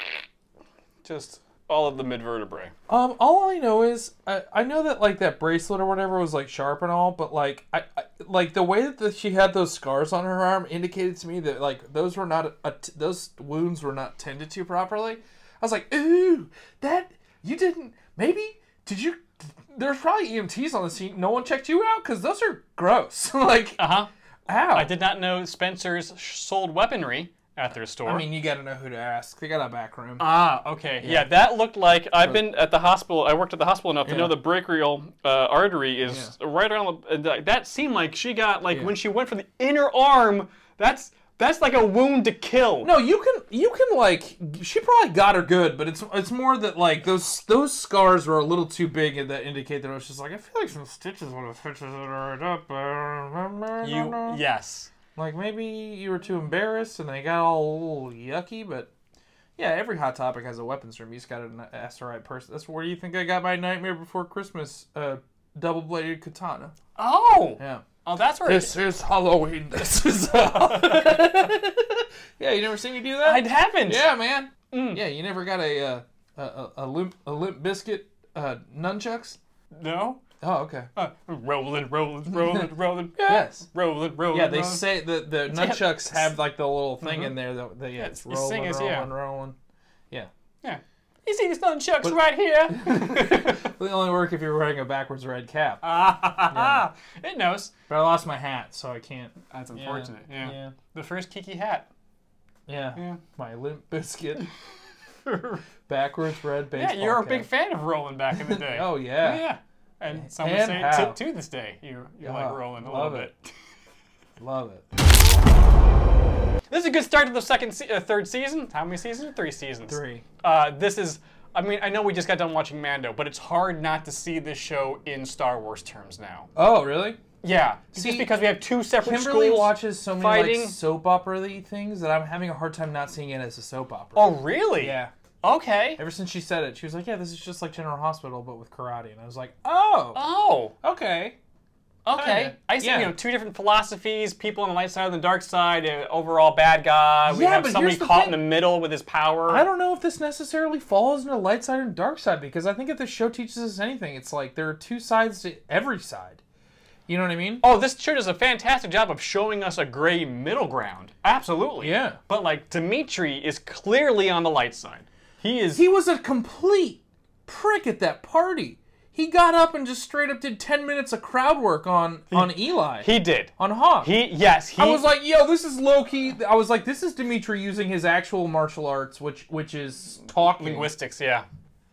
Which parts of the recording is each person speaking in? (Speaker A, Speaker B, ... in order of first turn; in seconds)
Speaker A: 1.0-2.7, 23.8-24.1, 24.7-28.3, 30.2-43.0, 53.8-54.9, 67.0-68.8, 70.3-71.1, 73.2-74.1, 74.7-75.1, 79.7-80.2, 81.0-86.4, 87.0-87.4, 88.0-89.1, 90.6-93.7, 95.8-97.7, 99.5-101.9, 103.0-103.2, 105.2-105.6, 106.7-113.5, 116.7-126.5, 127.4-130.8, 134.2-136.0, 140.1-140.8, 142.1-149.7, 157.6-165.8, 172.3-175.1, 180.6-181.5
Speaker B: 2.9-24.9, 28.0-30.2, 31.0-31.3, 32.2-32.4, 34.0-34.4, 36.0-36.3, 42.8-54.4, 55.1-58.9, 59.6-66.8, 67.6-67.9, 68.5-79.4, 80.4-80.9, 83.2-83.7, 84.3-89.6, 92.0-95.8, 96.5-96.9, 97.9-100.8, 102.7-104.5, 105.9-107.5, 108.3-109.5, 110.1-111.2, 112.2-113.3, 114.4-114.9, 119.9-120.2, 126.5-127.2, 127.9-128.4, 129.0-135.1, 136.0-140.3, 140.8-141.4, 142.1-143.2, 147.3-148.5, 149.5-156.4, 157.1-157.6, 161.8-162.2, 165.8-180.9